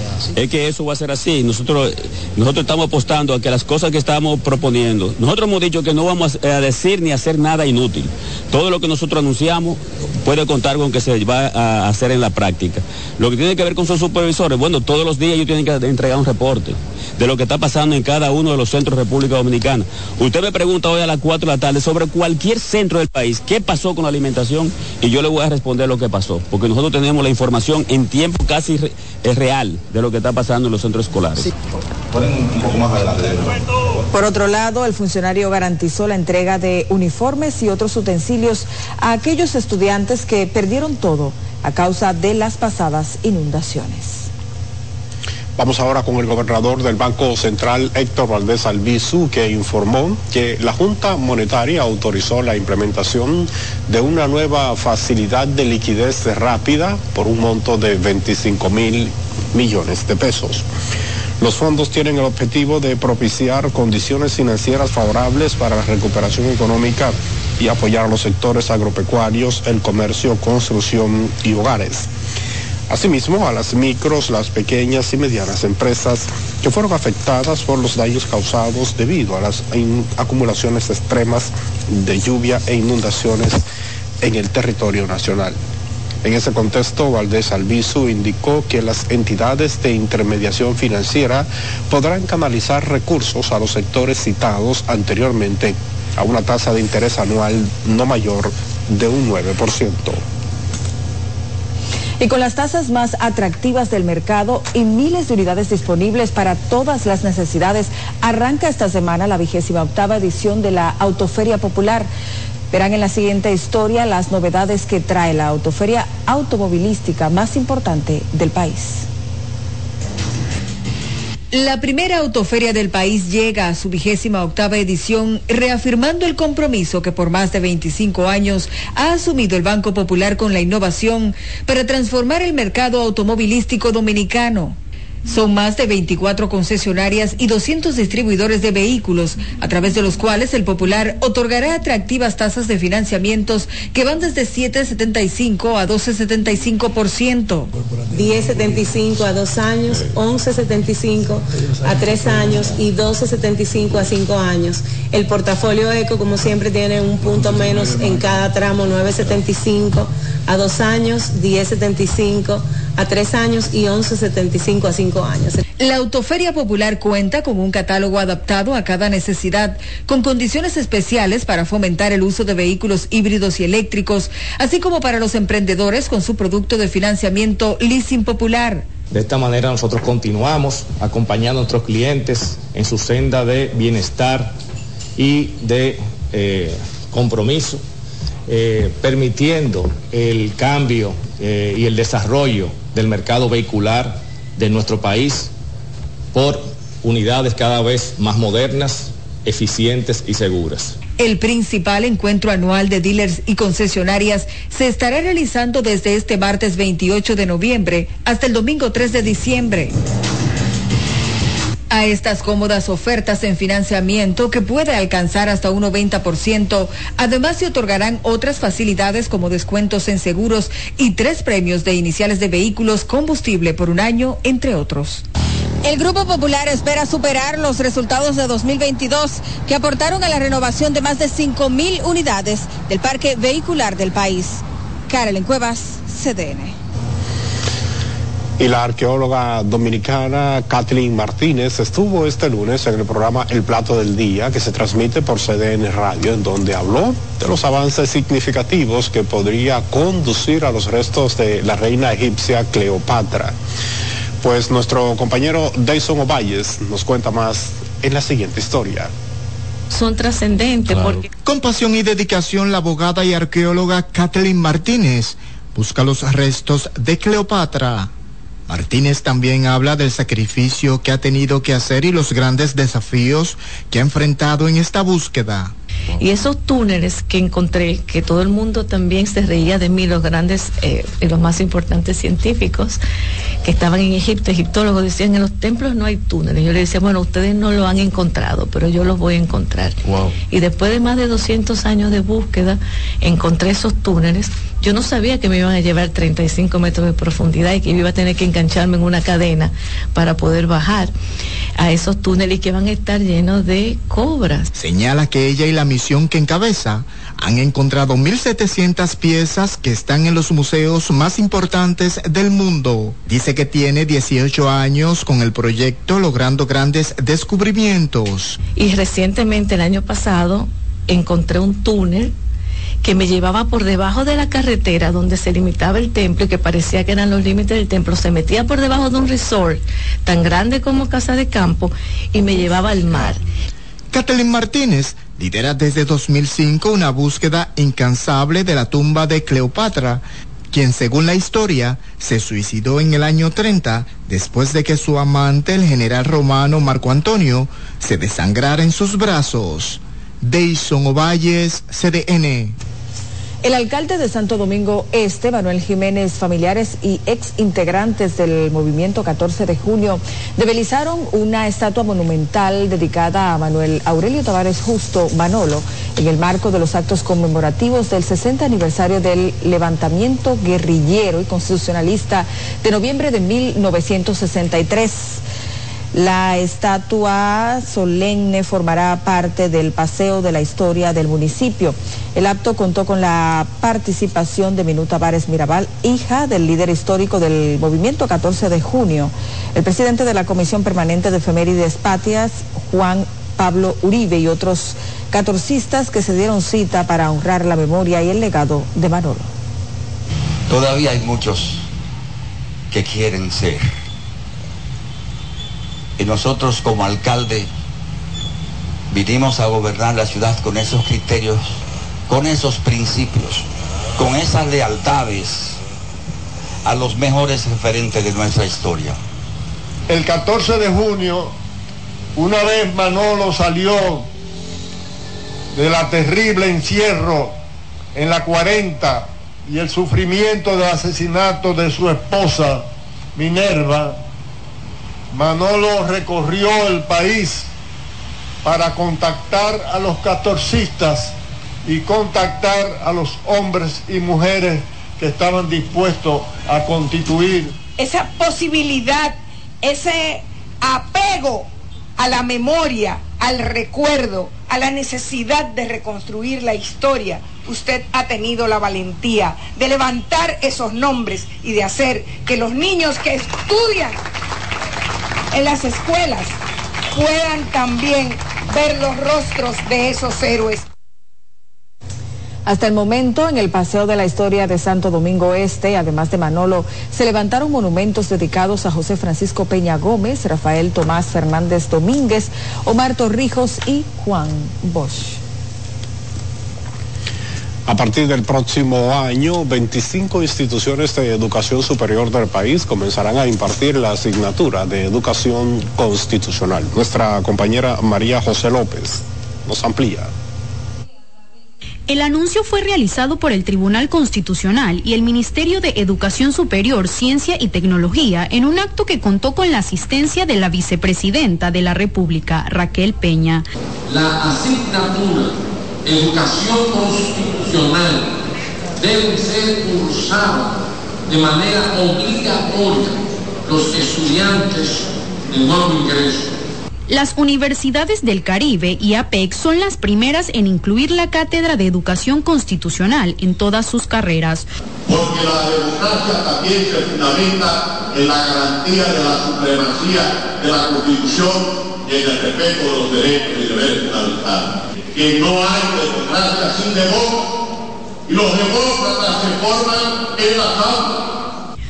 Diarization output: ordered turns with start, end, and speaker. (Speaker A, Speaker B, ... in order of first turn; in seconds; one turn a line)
Speaker A: 0.3-31.5
Speaker B: 34.1-44.3
Speaker C: 45.5-60.7
Speaker C: 61.4-72.1
Speaker C: 72.9-83.6
Speaker C: 84.2-85.6
Speaker C: 86.2-100.2
Speaker B: 102.2-112.1
Speaker B: 112.7-119.0
Speaker B: 121.5-147.7
Speaker D: 148.1-165.6
Speaker B: 165.8-178.9
Speaker E: 179.1-184.5
Speaker E: 185.2-187.8
Speaker E: 188.5-195.5
Speaker E: 196.3-200.9
Speaker B: 201.2-209.9
Speaker B: 211.9-225.2
Speaker B: 225.8-236.7
Speaker C: 238.6-253.5
Speaker C: 254.4-259.1
Speaker F: 259.9-261.2
Speaker G: 261.4-268.1
Speaker G: 268.7-275.7
Speaker F: 276.1-283.0
Speaker F: 283.6-301.1
Speaker F: 301.8-304.7
Speaker G: 304.7-318.6
Speaker F: 318.8-322.3
Speaker F: 323.0-333.4
Speaker G: 334.1-352.8
Speaker B: 353.6-375.4
Speaker B: 376.1-399.5
Speaker H: 400.7-401.9
Speaker H: 402.9-403.9
Speaker H: 406.2-407.7
Speaker H: 409.1-415.8
Speaker H: 416.8-419.2
Speaker I: 420.1-421.5
Speaker I: 422.4-424.2
Speaker I: 425.8-427.5
Speaker I: 428.2-432.8
Speaker I: 433.4-434.1
Speaker I: 435.4-437.6
Speaker I: 438.6-441.3
Speaker I: 441.9-447.7
Speaker J: 448.0-449.3
Speaker J: 449.8-451.6
Speaker J: 452.2-464.1
Speaker J: 465.5-466.5
Speaker J: 467.1-470.8
Speaker B: 472.6-485.4
Speaker C: 487.9-500.3
Speaker K: 502.1-513.6
Speaker K: 527.1-534.7
Speaker L: 535.0-547.5
Speaker L: 548.3-551.3